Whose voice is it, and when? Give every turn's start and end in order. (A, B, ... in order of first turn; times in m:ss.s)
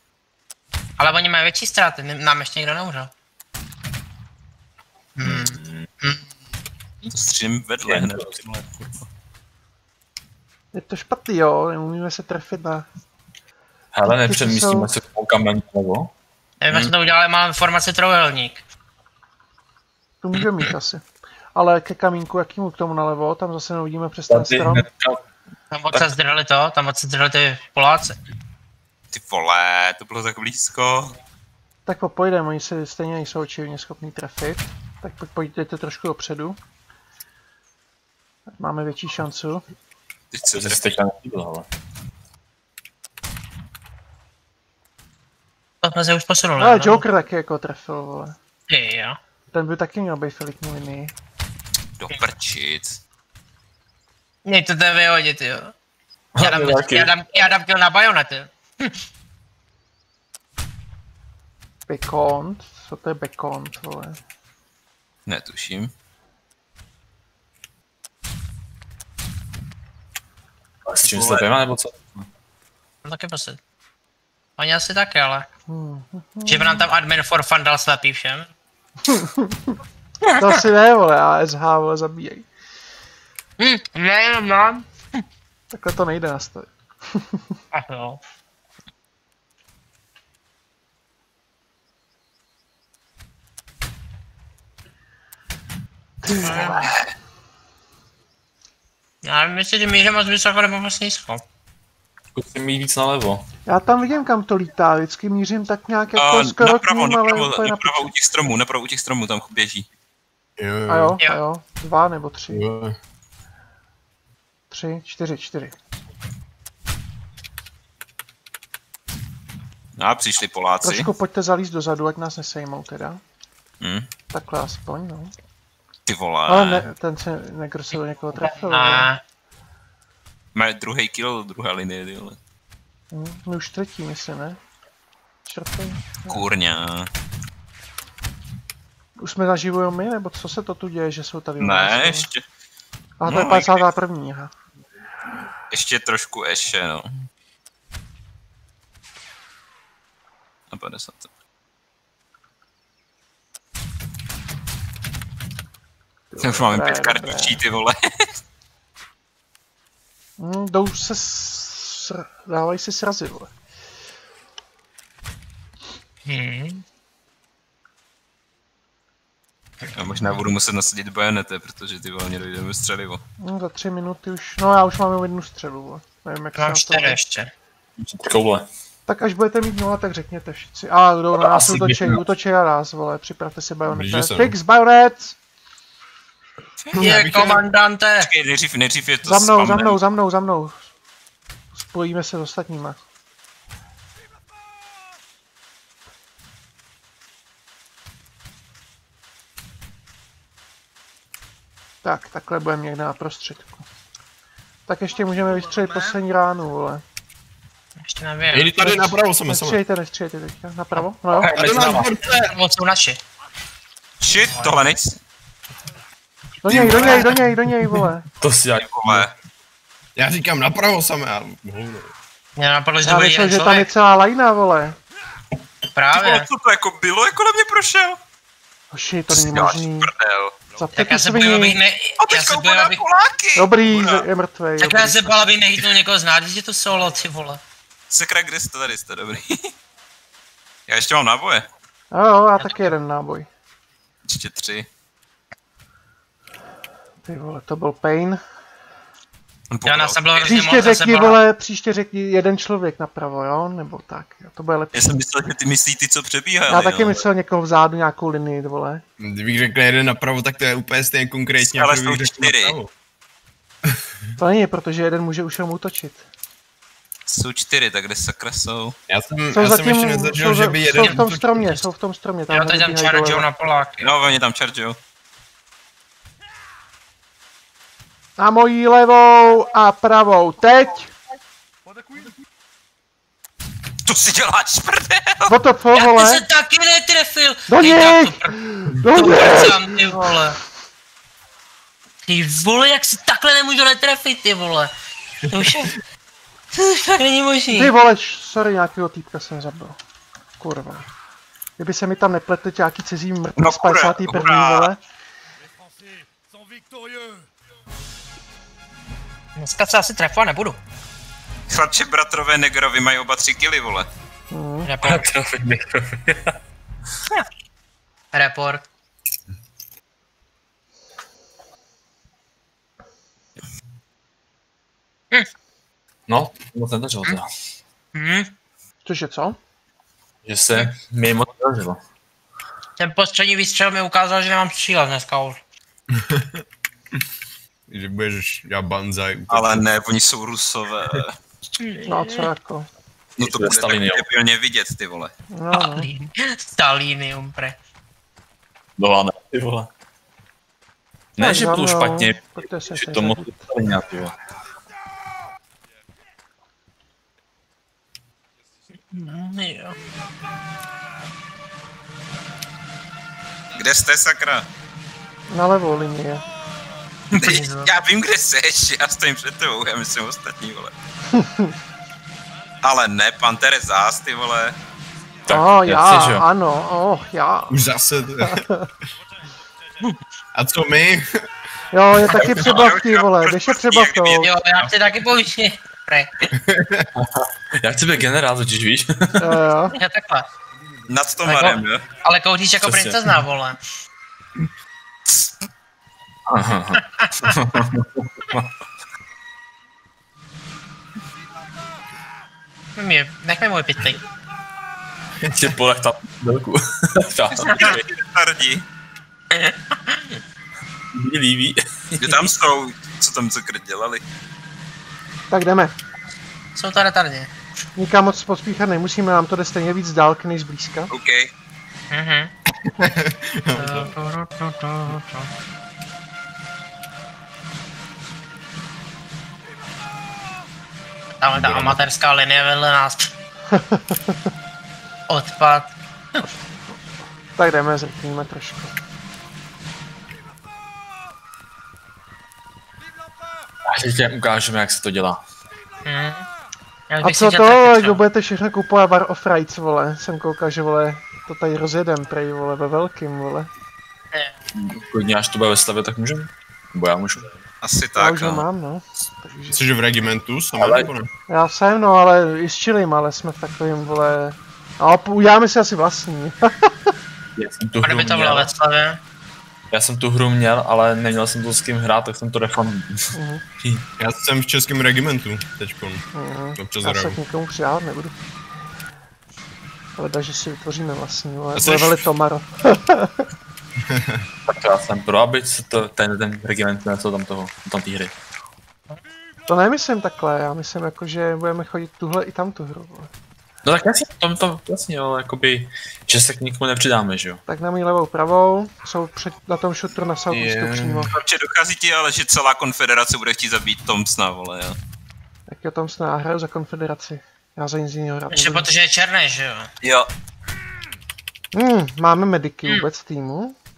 0:01.0-0:03.1 A
0:05.2-0:06.2 A
0:05.2-0:05.9 B
0:07.1-0:09.0 C
0:07.8-0:08.3 B
0:10.7-0:12.8 D
0:13.9-0:16.1 B
0:14.0-0:14.9 D
0:16.6-0:18.6 A
0:20.2-0:24.8 D
0:24.3-0:25.2 B
0:25.7-0:28.2 A
0:29.1-0:31.2 C
0:31.8-0:36.6 D
0:38.5-0:39.6 D
0:40.3-0:40.9 C
0:40.5-0:41.7 B
0:45.8-0:47.0 A
0:46.6-0:48.4 D
0:48.7-0:49.2 A
0:49.5-0:51.1 D
0:52.0-0:53.0 C
0:54.4-0:55.7 A
0:56.3-0:57.1 B
0:56.4-0:59.0 A
1:01.9-1:04.2 D
1:05.2-1:05.9 C
1:10.8-1:12.3 B
1:13.0-1:13.6 A
1:14.6-1:15.5 A
1:15.7-1:16.8 D
1:16.4-1:18.5 A
1:19.0-1:19.7 D
1:20.2-1:20.5 A
1:20.4-1:22.5 D
1:23.6-1:24.8 A
1:25.7-1:27.4 D
1:27.7-1:28.2 A
1:36.2-1:37.0 D
1:36.4-1:36.9 A
1:39.2-1:41.4 A
1:42.3-1:43.5 B
1:43.6-1:48.1 D
1:46.1-1:49.8 C
1:50.6-1:51.2 E
1:50.9-1:52.6 D
1:52.5-1:53.0 E
1:54.7-1:55.7 D
2:00.0-2:01.1 C
2:00.8-2:03.2 D
2:03.8-2:04.1 C
2:04.3-2:05.3 D
2:06.0-2:06.9 C
2:06.4-2:09.1 D
2:08.4-2:09.2 A
2:10.5-2:12.4 C
2:13.1-2:14.6 D
2:15.5-2:16.4 D
2:16.3-2:17.1 C
2:19.2-2:22.3 D
2:21.6-2:22.4 C
2:23.2-2:24.5 D
2:23.2-2:23.8 C
2:25.7-2:27.1 C
2:30.7-2:31.3 C
2:36.3-2:37.6 D
2:36.4-2:38.3 C
2:40.4-2:43.5 D
2:46.3-2:46.8 A
2:49.9-2:53.2 C
2:53.4-2:57.2 D
2:56.5-2:57.5 A
2:58.0-2:58.7 B
2:59.1-3:05.3 D
3:01.4-3:02.2 B
3:03.9-3:04.6 E
3:06.9-3:07.6 E
3:06.9-3:08.3 A
3:08.2-3:10.0 C
3:09.2-3:10.8 D
3:11.7-3:13.0 D
3:22.0-3:23.8 D
3:24.9-3:27.0 D
3:28.0-3:28.9 A
3:28.5-3:29.8 E
3:28.8-3:31.6 D
3:31.4-3:32.1 B
3:31.4-3:33.2 A
3:31.5-3:32.5 E
3:34.2-3:35.2 C
3:36.6-3:38.2 D
3:36.6-3:37.4 E
3:38.4-3:39.3 B
3:38.8-3:39.3 C
3:40.2-3:42.1 E
3:42.6-3:43.9 A
3:43.0-3:45.0 D
3:45.9-3:46.5 A
3:46.1-3:48.2 C
3:48.9-3:50.1 D
3:49.3-3:50.6 C
3:50.8-3:51.8 D
3:50.9-3:53.0 A
3:52.2-3:54.3 C
3:53.5-3:55.4 D
3:54.8-3:57.6 A
3:58.1-3:59.7 C
4:00.9-4:01.6 C
4:02.1-4:03.5 D
4:02.6-4:02.8 A
4:04.3-4:04.9 C
4:07.2-4:08.4 D
4:09.7-4:10.6 C
4:09.8-4:11.4 A
4:10.4-4:15.2 D
4:14.9-4:17.2 C
4:16.7-4:19.0 D
4:19.2-4:22.9 E
4:21.7-4:22.8 C
4:24.4-4:26.2 D
4:27.3-4:28.9 C
4:29.1-4:31.8 E
4:29.5-4:33.4 D
4:32.5-4:34.1 A
4:34.0-4:35.0 C
4:38.4-4:41.1 D
4:44.0-4:45.6 C
4:45.5-4:46.4 D
4:45.9-4:48.6 A
4:47.7-4:50.3 D
4:49.1-4:50.6 A
4:52.3-4:54.9 A
4:55.5-4:55.9 A
4:56.7-4:57.9 A
4:57.7-5:00.0 D
5:00.6-5:01.1 D
5:01.8-5:05.0 D
5:03.6-5:04.9 C
5:09.6-5:10.8 A
5:11.7-5:14.1 C
5:14.5-5:14.9 D
5:14.8-5:15.2 A
5:15.0-5:16.6 B
5:18.3-5:18.8 A
5:26.3-5:27.5 B
5:28.1-5:28.5 A
5:29.0-5:29.6 D
5:30.4-5:32.0 B
5:33.0-5:35.6 A
5:36.1-5:36.6 E
5:37.9-5:39.8 E
5:39.5-5:41.4 C
5:41.8-5:42.5 A
5:42.1-5:42.9 D
5:43.4-5:45.3 C
5:43.4-5:44.2 B
5:45.5-5:46.1 D
5:45.7-5:47.8 A
5:49.0-5:49.9 B
5:51.4-5:54.4 B
5:51.4-5:53.7 D
5:59.1-6:00.0 A
6:03.7-6:04.7 C
6:05.5-6:06.4 D
6:07.3-6:07.9 A
6:07.3-6:10.9 C
6:11.3-6:11.8 D
6:12.8-6:14.8 C
6:15.4-6:16.4 B
6:15.5-6:17.8 D
6:17.7-6:18.6 E
6:18.4-6:18.9 D
6:20.5-6:21.4 E
6:21.9-6:24.5 D
6:22.3-6:22.6 A
6:22.6-6:24.9 C
6:24.4-6:26.4 A
6:26.6-6:27.1 E
6:27.2-6:29.6 B
6:29.4-6:30.0 D
6:29.9-6:30.5 A
6:31.1-6:32.0 C
6:31.4-6:33.8 A
6:32.8-6:33.4 B
6:36.5-6:38.7 B
6:37.2-6:37.5 A
6:43.0-6:44.2 A
6:45.5-6:48.0 B
6:47.6-6:48.8 C
6:47.7-6:47.9 A
6:49.5-6:50.4 A
6:51.1-6:52.5 B
6:52.2-6:54.2 C
6:55.5-6:55.9 D
6:56.8-6:57.5 A
6:58.0-7:01.1 D
7:01.1-7:01.5 C
7:02.1-7:02.5 A
7:02.8-7:04.1 E
7:03.7-7:05.5 A
7:11.4-7:13.3 A
7:11.5-7:12.0 E
7:13.7-7:14.3 D
7:15.3-7:15.9 A
7:17.6-7:18.9 D
7:23.8-7:25.4 B
7:26.0-7:26.4 A
7:27.1-7:28.2 A
7:27.2-7:33.7 D
7:34.7-7:37.5 B
7:37.8-7:38.6 C
7:38.2-7:40.1 D
7:39.7-7:41.3 E
7:40.8-7:41.1 B
7:41.5-7:47.1 D
7:47.6-7:48.7 B
7:48.0-7:49.2 A
7:49.9-7:54.0 B
7:53.3-7:53.6 D
7:54.2-7:56.2 E
7:56.3-7:58.4 D
7:56.8-7:57.4 E
8:00.2-8:03.5 D
8:01.7-8:02.2 E
8:04.1-8:04.4 E
8:04.6-8:08.3 B
8:09.7-8:13.3 D
8:13.8-8:17.6 B
8:17.7-8:21.3 D
8:20.5-8:21.4 E
8:21.3-8:25.0 C
8:25.7-8:28.9 D
8:28.5-8:29.9 A
8:30.0-8:30.3 C
8:31.7-8:33.7 D